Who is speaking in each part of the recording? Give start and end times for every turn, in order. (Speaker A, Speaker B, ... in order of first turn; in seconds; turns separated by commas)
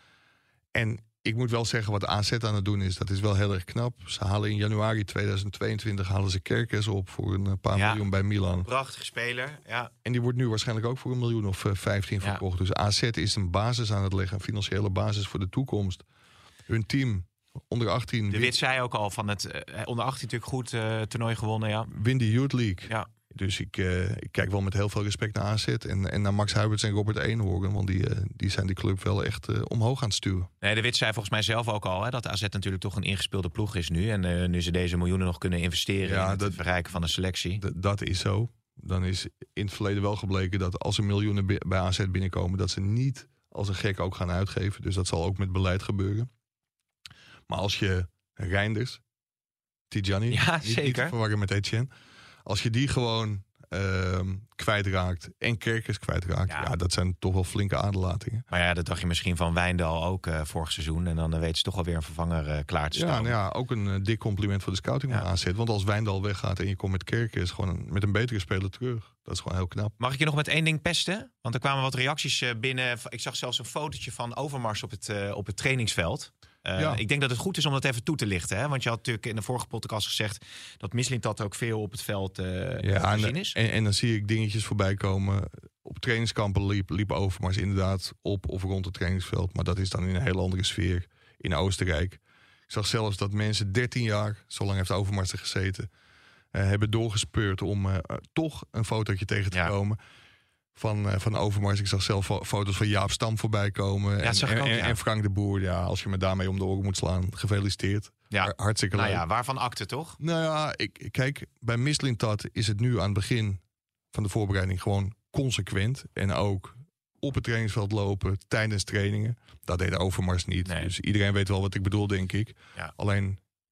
Speaker A: 0.7-8.7, Speaker B: 7.7-8.0, Speaker B: 8.6-9.9, Speaker A: 10.0-16.0, Speaker A: 16.7-18.5, Speaker B: 18.3-21.9, Speaker A: 21.9-30.5, Speaker B: 30.6-37.6, Speaker A: 36.0-36.6, Speaker A: 37.6-46.3, Speaker A: 47.5-49.0, Speaker A: 49.9-51.9, Speaker B: 50.3-51.1, Speaker A: 52.4-58.5, Speaker B: 56.5-56.7, Speaker B: 58.5-63.3, Speaker A: 62.9-69.9, Speaker B: 70.0-83.5, Speaker A: 76.8-77.0, Speaker A: 82.8-95.9, Speaker A: 96.5-100.0, Speaker A: 100.7-109.2, Speaker B: 104.2-105.0, Speaker B: 108.3-110.2, Speaker A: 110.2-123.4, Speaker B: 120.7-120.9